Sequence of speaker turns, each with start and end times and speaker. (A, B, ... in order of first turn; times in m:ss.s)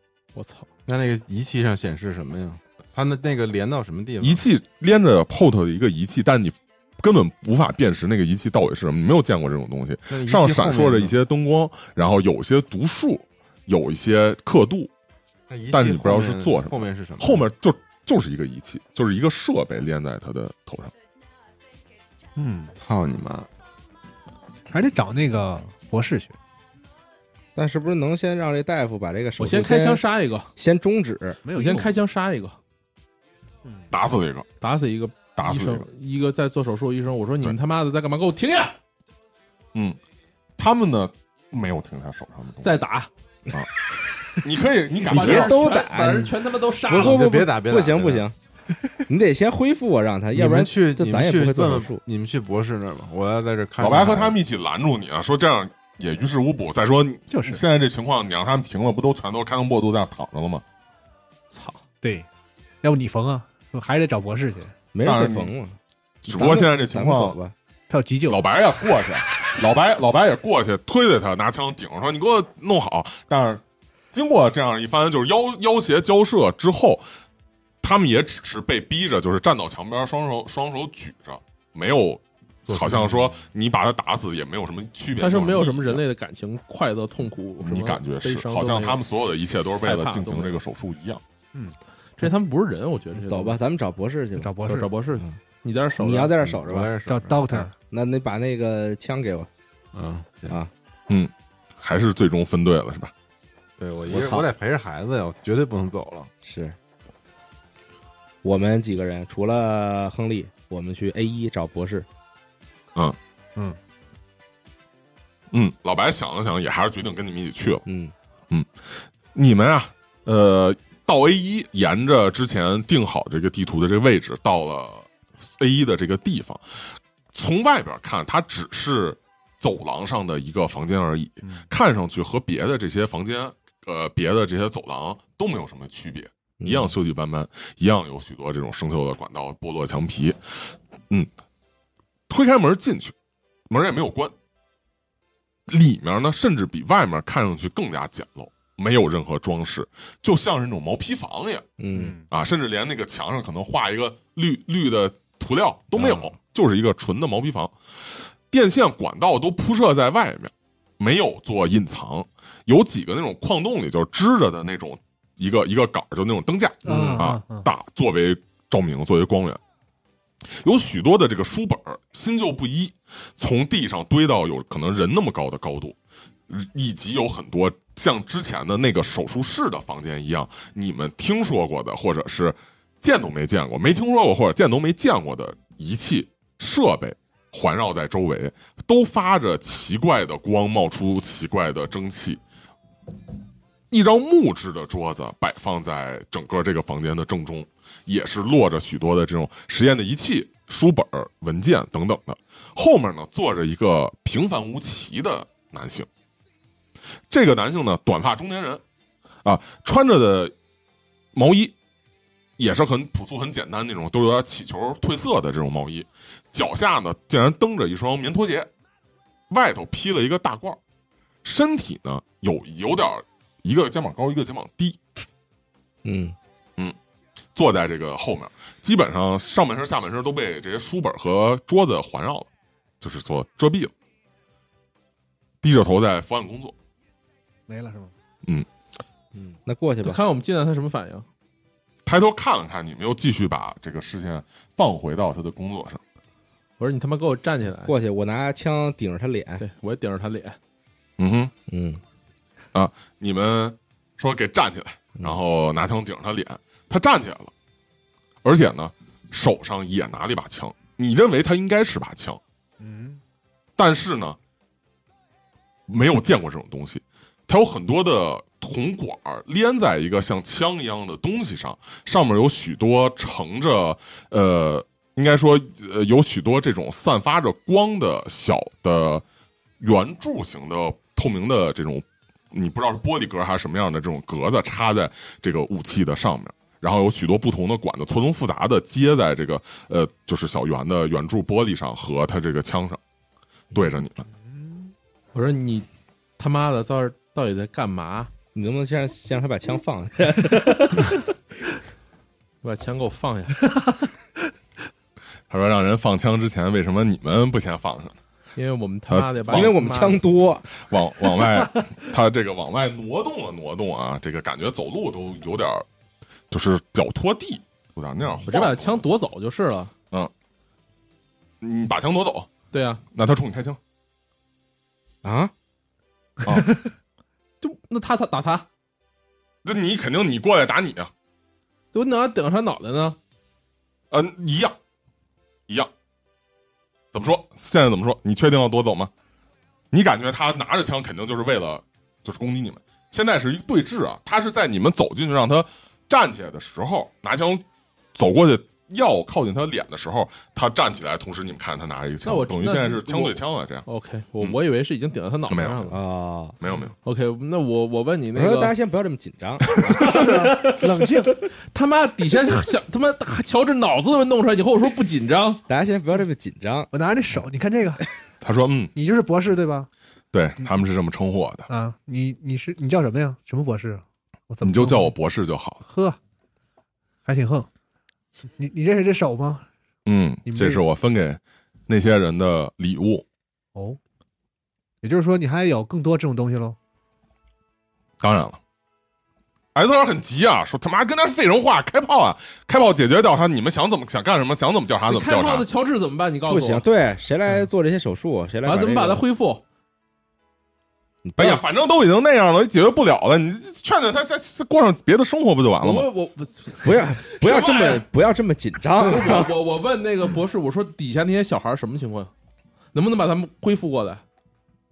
0:00.4-0:00.7 A
0:00.9-0:04.5 B
0:04.2-0:14.9 C
0:10.1-0:11.2 B
0:15.5-0:17.5 B
0:15.7-0:20.9 C
0:22.4-0:22.7 D
0:22.8-0:23.5 B
0:24.7-0:26.4 D
0:27.6-0:30.0 E
0:29.4-0:30.5 A
0:30.6-0:31.4 E
0:31.4-0:31.9 D
0:31.6-0:32.6 A
0:33.9-0:34.4 C
0:34.6-0:38.8 A
0:35.4-0:35.9 C
0:39.7-0:40.0 C
0:40.6-0:42.8 C
0:42.6-0:43.1 A
0:44.3-0:45.7 C
0:45.0-0:47.3 A
0:45.0-0:48.4 E
0:46.9-0:48.3 B
0:49.1-0:52.0 E
0:50.3-0:54.4 B
0:53.8-1:00.6 C
0:57.3-0:57.6 D
1:01.5-1:01.8 A
1:02.0-1:02.3 D
1:02.8-1:04.7 D
1:04.9-1:07.6 E
1:05.0-1:05.6 C
1:06.2-1:07.4 C
1:07.9-1:08.4 D
1:08.3-1:13.6 C
1:14.1-1:17.0 C
1:17.8-1:26.0 C
1:22.7-1:23.4 B
1:25.2-1:29.0 A
1:27.6-1:31.2 C
1:29.8-1:30.6 A
1:31.5-1:32.3 D
1:32.2-1:33.6 A
1:33.1-1:34.6 E
1:34.4-1:34.9 D
1:34.6-1:36.4 A
1:36.0-1:36.9 E
1:36.5-1:37.7 B
1:37.1-1:37.7 D
1:37.9-1:39.5 E
1:39.9-1:40.6 B
1:41.1-1:43.1 C
1:43.8-1:46.3 B
1:44.1-1:44.5 E
1:46.4-1:46.8 E
1:48.4-1:52.1 E
1:55.5-1:57.8 C
1:57.9-1:58.1 E
1:58.5-2:21.3 C
2:16.6-2:17.0 E
2:22.3-2:23.1 C
2:23.7-2:24.3 C
2:25.7-2:31.7 C
2:31.8-2:32.2 E
2:31.9-2:32.2 D
2:32.3-2:49.6 C
2:36.0-2:36.3 E
2:46.8-2:47.7 D
2:46.9-2:47.2 E
2:50.6-2:56.0 C
2:56.5-3:12.4 C
3:13.9-3:26.1 C
3:27.3-3:28.8 C
3:29.4-3:30.5 C
3:31.3-3:31.7 C
3:32.6-3:38.7 C
3:39.5-3:40.8 C
3:41.4-3:45.0 C
3:46.0-3:46.4 E
3:47.6-3:52.5 C
3:53.0-3:53.9 C
3:55.6-3:56.7 C
3:57.7-3:58.1 D
3:59.4-4:00.2 E
4:00.0-4:01.3 A
4:02.0-4:06.0 C
4:06.8-4:07.9 A
4:07.8-4:09.6 E
4:09.6-4:10.6 A
4:11.2-4:11.5 C
4:11.7-4:12.0 E
4:12.7-4:17.5 C
4:18.4-4:22.4 C
4:22.8-4:23.2 D
4:23.8-4:24.4 C
4:25.9-4:39.2 C
4:39.8-4:53.0 C
4:53.7-4:54.3 C
4:54.5-4:54.9 D
4:55.3-4:55.9 A
4:56.4-4:58.3 A
4:58.5-5:01.2 E
5:02.6-5:03.6 A
5:05.5-5:08.2 C
5:08.6-5:10.2 A
5:09.1-5:09.8 C
5:09.5-5:10.7 E
5:10.8-5:15.9 C
5:16.5-5:19.0 C
5:18.4-5:19.9 A
5:21.6-5:22.5 C
5:22.7-5:23.0 A
5:23.1-5:23.8 C
5:25.2-5:25.5 E
5:26.4-5:26.8 C
5:27.6-5:28.7 A
5:29.6-5:31.1 C
5:31.9-5:33.2 A
5:34.1-5:34.8 C
5:37.1-5:39.1 C
5:39.9-5:53.9 C
5:52.2-5:56.0 A
5:55.5-5:55.9 C
5:55.9-5:56.6 E
5:56.6-5:56.9 C
5:57.0-5:58.7 A
5:58.4-6:00.2 E
6:00.0-6:01.4 D
6:00.1-6:00.8 A
6:01.4-6:05.6 A
6:05.7-6:06.9 E
6:06.9-6:08.0 D
6:08.4-6:08.9 C
6:09.0-6:09.9 D
6:10.3-6:11.7 C
6:11.7-6:15.1 D
6:14.6-6:15.8 C
6:15.8-6:16.2 D
6:17.2-6:17.7 D
6:18.6-6:19.7 D
6:20.0-6:23.2 C
6:20.4-6:20.8 D
6:25.0-6:26.8 D
6:28.2-6:28.6 C
6:29.7-6:35.7 C
6:35.1-6:36.8 A
6:36.5-6:39.2 E
6:38.6-6:39.6 A
6:41.2-6:41.6 E
6:41.4-6:46.1 C
6:45.8-6:48.0 A
6:46.8-6:49.6 E
6:49.0-6:52.3 A
6:52.9-6:54.2 A